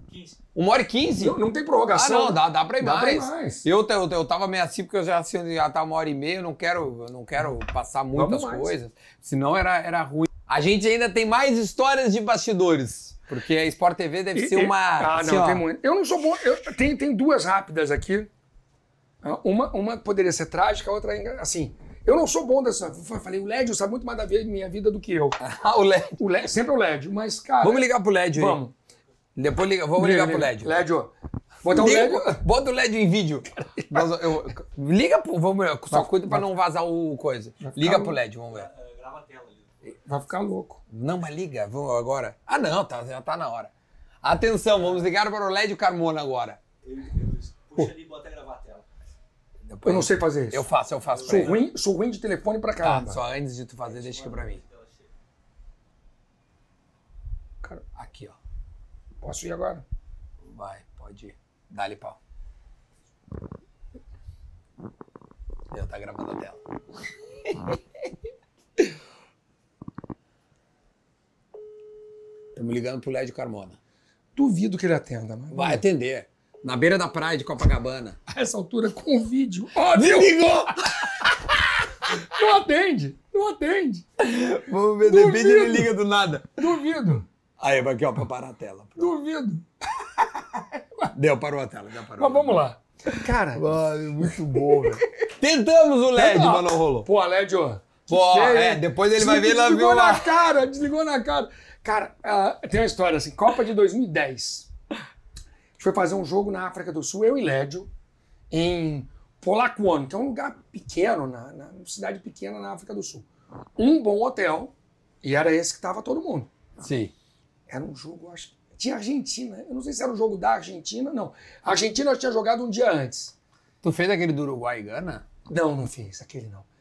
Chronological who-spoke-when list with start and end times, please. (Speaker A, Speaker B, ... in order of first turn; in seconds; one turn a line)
Speaker A: 0.5-1.4
Speaker B: 1.2-3.6
Speaker A: 1.9-15.7
Speaker B: 8.1-8.7
Speaker B: 14.3-18.3
Speaker B: 19.2-25.4
Speaker A: 25.4-26.2
Speaker B: 26.2-28.7
Speaker A: 27.6-28.6
Speaker A: 29.4-30.8
Speaker B: 29.9-32.4
Speaker A: 31.7-38.7
Speaker B: 33.6-34.1
Speaker B: 35.9-36.4
Speaker B: 37.6-38.2
Speaker C: 38.5-39.7
Speaker B: 40.0-40.8
Speaker A: 40.9-43.7
Speaker A: 44.2-46.6
Speaker C: 46.8-48.9
Speaker A: 49.7-51.6
Speaker B: 49.8-50.7
Speaker C: 51.1-51.6
Speaker B: 51.2-53.2
Speaker A: 52.8-54.6
Speaker C: 53.8-55.1
Speaker A: 57.9-58.4
Speaker B: 59.2-59.8
Speaker A: 60.5-62.2
Speaker A: 65.7-66.6
Speaker A: 67.5-67.8
Speaker A: 72.5-73.8
Speaker B: 74.3-75.8
Speaker A: 75.5-78.2
Speaker B: 78.3-80.7
Speaker A: 79.9-81.4
Speaker B: 82.1-84.0
Speaker A: 84.2-86.6
Speaker B: 85.0-85.9
Speaker B: 86.6-87.3
Speaker A: 87.6-89.1
Speaker B: 89.0-89.7
Speaker A: 91.1-97.1
Speaker B: 92.2-93.6
Speaker B: 94.2-95.0
Speaker B: 96.1-104.7
Speaker A: 98.1-100.3
Speaker B: 105.8-107.9
Speaker B: 108.5-113.2
Speaker B: 113.8-116.5
Speaker A: 116.8-117.1
Speaker B: 117.7-123.3
Speaker A: 123.8-125.2
Speaker B: 125.5-126.7